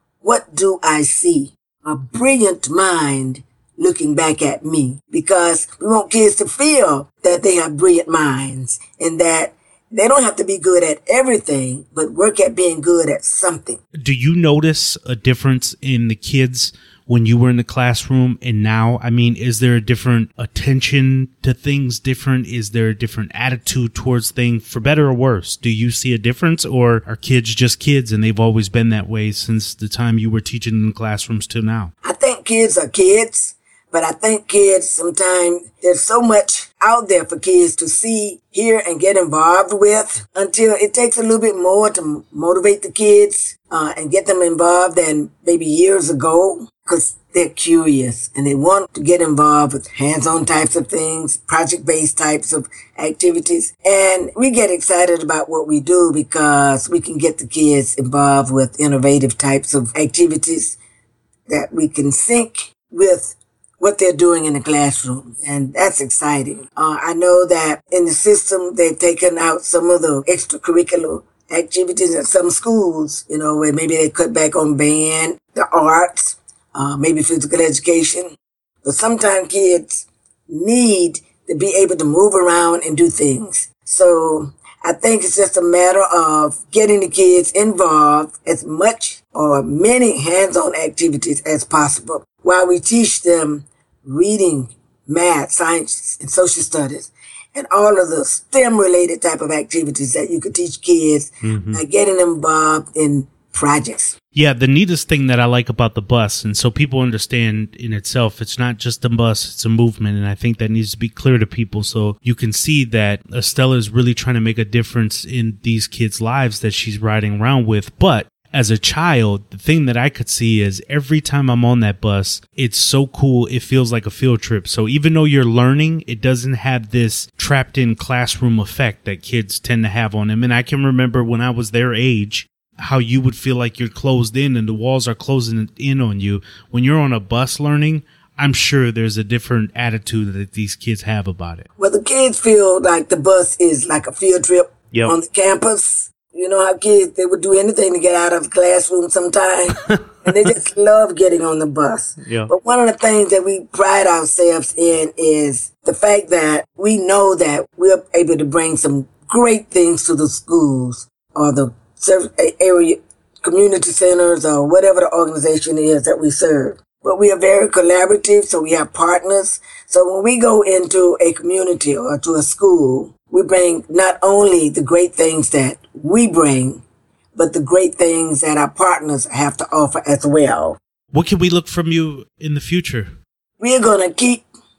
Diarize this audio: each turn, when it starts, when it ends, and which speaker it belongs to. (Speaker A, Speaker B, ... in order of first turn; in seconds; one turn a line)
Speaker A: 0.2-13.8
Speaker B: 14.0-31.9
Speaker A: 32.0-60.8
Speaker A: 61.5-104.2
Speaker B: 101.5-101.8
Speaker B: 104.3-141.6
Speaker A: 141.8-176.8
Speaker B: 152.2-152.5
Speaker A: 177.3-180.8
Speaker B: 181.1-183.1
Speaker A: 183.6-184.4